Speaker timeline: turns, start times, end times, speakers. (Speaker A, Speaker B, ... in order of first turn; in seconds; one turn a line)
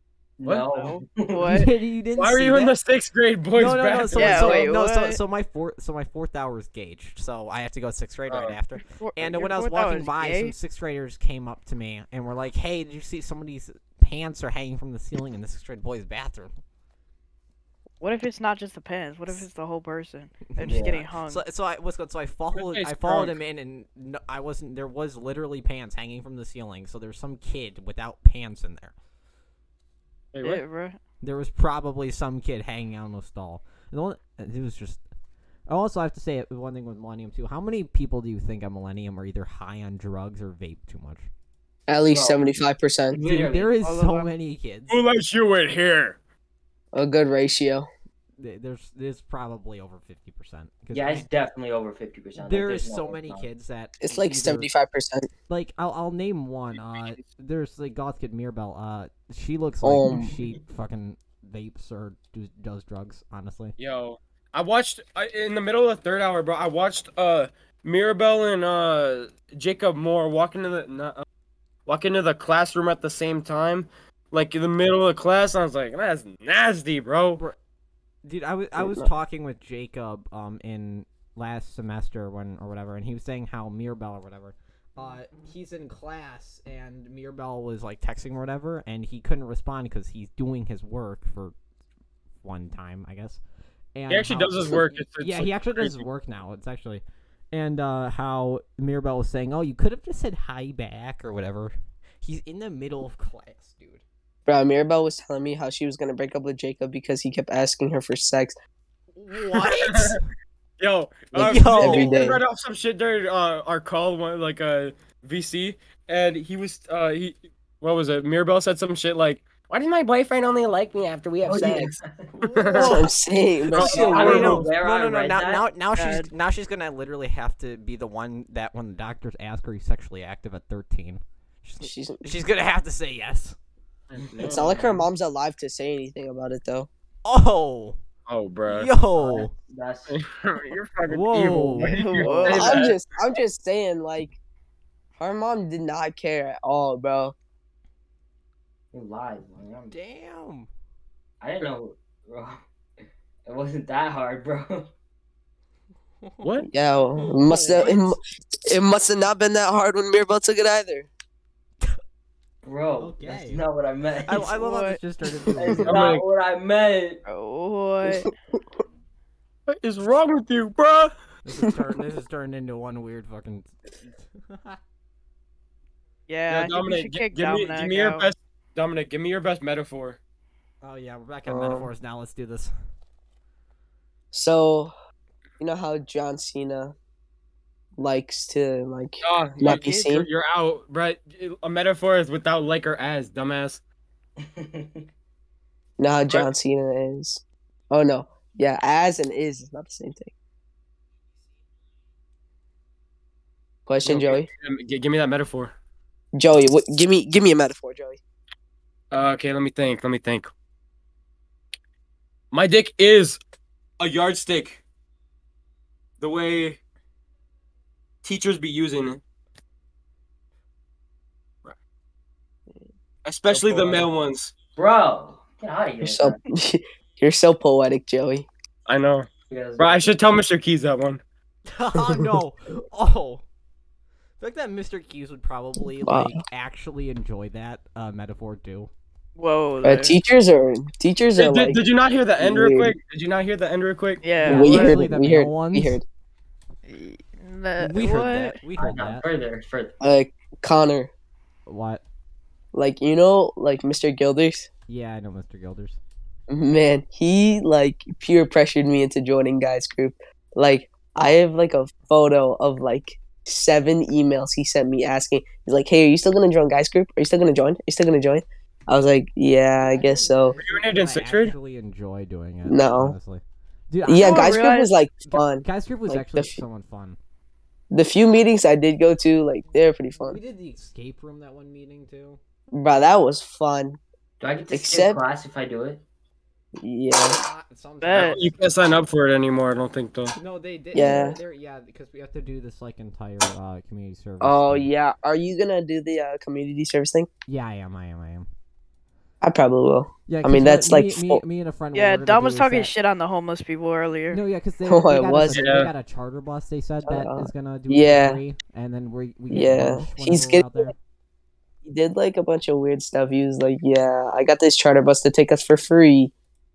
Speaker A: 0.4-1.6
Speaker B: 0.4-0.7
Speaker C: 0.7-1.7
Speaker D: 1.4-2.8
Speaker B: 2.2-4.7
Speaker D: 3.5-16.5
Speaker C: 4.1-5.2
Speaker B: 8.3-8.6
Speaker C: 8.8-10.5
Speaker C: 18.0-21.4
Speaker D: 20.5-28.9
Speaker A: 20.6-21.1
Speaker B: 22.5-23.4
Speaker B: 30.3-30.6
Speaker C: 30.4-31.0
Speaker D: 31.2-35.0
Speaker D: 35.7-41.3
Speaker E: 41.9-43.2
Speaker A: 42.1-42.4
Speaker A: 43.1-43.7
Speaker D: 43.2-45.0
Speaker C: 43.8-44.3
Speaker B: 44.9-46.2
Speaker E: 46.9-47.9
Speaker D: 48.4-51.3
Speaker A: 50.9-53.4
Speaker D: 52.4-54.7
Speaker E: 54.0-55.3
Speaker D: 55.5-63.7
Speaker E: 59.8-60.3
Speaker B: 63.8-71.2
Speaker B: 71.9-77.4
Speaker D: 78.2-91.5
Speaker E: 78.8-79.1
Speaker D: 92.4-93.4
Speaker D: 93.9-104.0
Speaker B: 94.1-96.0
Speaker E: 104.5-108.5
Speaker D: 109.1-110.2
Speaker B: 109.5-110.2
Speaker B: 110.8-123.0
Speaker E: 111.3-112.4
Speaker D: 111.4-112.1
Speaker A: 121.4-122.3
Speaker D: 122.4-123.1
Speaker E: 122.8-124.5
Speaker D: 123.7-133.6
Speaker B: 123.7-124.7
Speaker A: 123.8-125.7
Speaker C: 126.0-126.3
Speaker E: 131.8-132.3
Speaker B: 134.1-134.8
Speaker E: 134.4-136.9
Speaker D: 134.4-134.8
Speaker D: 137.2-138.0
Speaker B: 138.3-138.9
Speaker D: 138.7-139.5
Speaker A: 139.2-140.2
Speaker B: 140.1-142.9
Speaker D: 141.1-142.1
Speaker C: 141.8-142.8
Speaker E: 142.3-144.3
Speaker E: 145.2-147.3
Speaker A: 148.9-149.9
Speaker D: 149.9-150.7
Speaker A: 151.4-152.6
Speaker A: 153.4-154.9
Speaker D: 156.2-156.6
Speaker E: 156.7-161.1
Speaker D: 157.2-158.2
Speaker A: 162.6-164.5
Speaker D: 163.0-163.6
Speaker D: 164.2-166.0
Speaker C: 164.5-165.0
Speaker A: 165.6-167.2
Speaker B: 165.8-166.2
Speaker C: 167.2-168.3
Speaker B: 169.7-171.1
Speaker D: 171.4-174.8
Speaker C: 176.3-178.3
Speaker B: 176.5-180.2
Speaker D: 180.8-182.7
Speaker E: 181.5-181.9
Speaker E: 184.3-184.9
Speaker E: 185.6-186.9
Speaker E: 188.0-190.3
Speaker B: 189.2-193.8
Speaker A: 194.4-195.1
Speaker E: 196.0-200.3
Speaker E: 203.9-204.5
Speaker B: 204.0-205.7
Speaker E: 206.3-208.2
Speaker B: 209.1-210.5
Speaker B: 212.5-213.4
Speaker B: 214.0-214.8
Speaker B: 216.2-216.8
Speaker B: 218.2-219.2
Speaker B: 223.2-224.5
Speaker E: 223.5-224.1
Speaker A: 224.8-226.4
Speaker E: 226.0-228.5
Speaker B: 228.9-229.3
Speaker A: 229.5-230.2
Speaker B: 229.8-231.2
Speaker D: 231.7-233.4
Speaker D: 234.4-238.9
Speaker E: 236.0-236.4
Speaker C: 239.4-240.2
Speaker E: 239.8-241.8
Speaker B: 241.3-244.3
Speaker E: 242.4-242.9
Speaker C: 244.2-245.0
Speaker D: 244.4-246.0
Speaker E: 244.4-246.0
Speaker C: 246.8-248.6
Speaker D: 247.8-249.2
Speaker A: 248.7-250.0
Speaker E: 250.0-251.1
Speaker D: 251.7-252.0
Speaker E: 252.7-254.7
Speaker D: 254.9-256.0
Speaker E: 256.5-270.6
Speaker D: 269.8-274.6
Speaker B: 270.6-271.5
Speaker E: 272.6-273.1
Speaker E: 274.1-276.6
Speaker C: 274.2-274.9
Speaker D: 275.3-277.2
Speaker E: 277.9-280.4
Speaker D: 280.2-282.4
Speaker E: 282.7-284.0
Speaker A: 284.4-286.0
Speaker E: 284.7-285.2
Speaker E: 286.8-287.4
Speaker D: 287.3-289.1
Speaker C: 288.0-288.4
Speaker B: 288.1-290.3
Speaker D: 290.3-294.9
Speaker E: 290.9-291.4
Speaker E: 294.4-297.3
Speaker D: 297.5-298.5
Speaker E: 299.4-301.4
Speaker D: 300.3-302.9
Speaker C: 301.9-304.4
Speaker D: 304.3-310.9
Speaker E: 304.8-305.7
Speaker B: 305.5-305.9
Speaker E: 307.1-308.4
Speaker E: 309.5-310.9
Speaker E: 311.8-316.3